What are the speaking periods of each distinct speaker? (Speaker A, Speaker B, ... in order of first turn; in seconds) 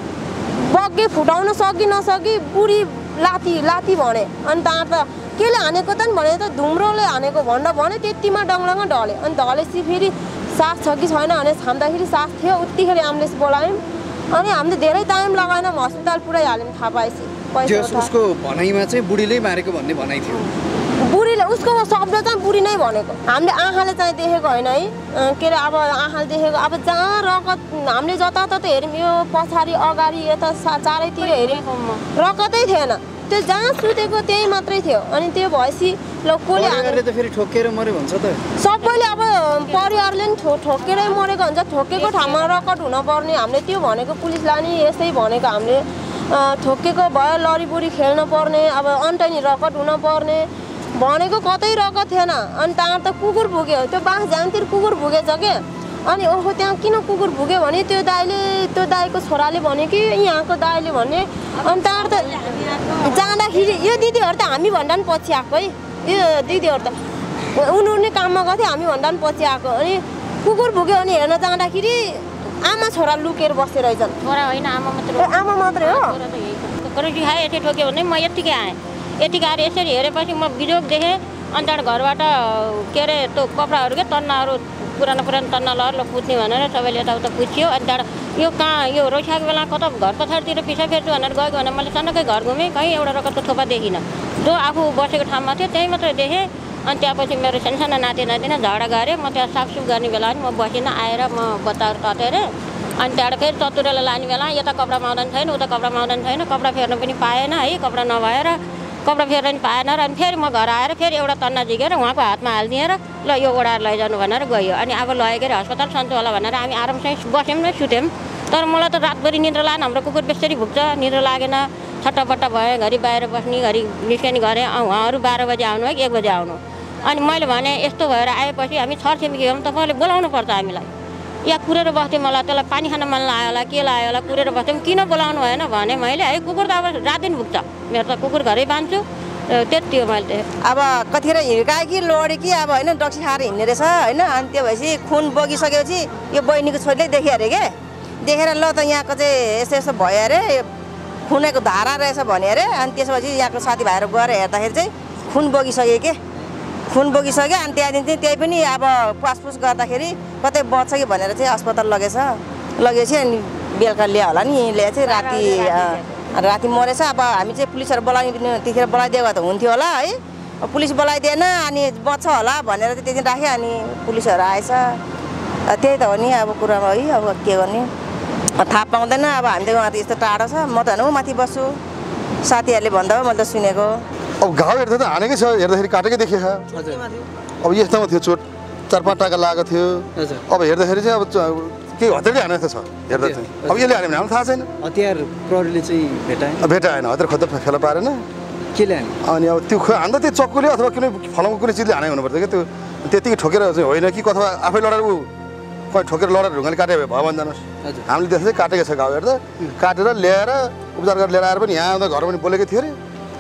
Speaker A: 0.5-18.1, 20.9-37.0, 38.6-67.0, 67.5-74.2, 75.2-76.2
Speaker B: 17.6-20.5, 36.5-38.4, 186.7-187.1, 190.2-190.4, 193.2-193.8, 194.8-196.7, 198.7-199.1
Speaker C: 31.1-32.0, 42.0-42.3, 74.2-130.9, 131.4-140.5
Speaker D: 140.6-150.7, 151.3-156.2, 156.9-175.0, 175.7-177.9, 178.6-181.7, 182.4-184.0
Speaker E: 184.4-186.7, 187.6-194.7, 196.6-198.2, 199.2-205.3, 205.9-213.0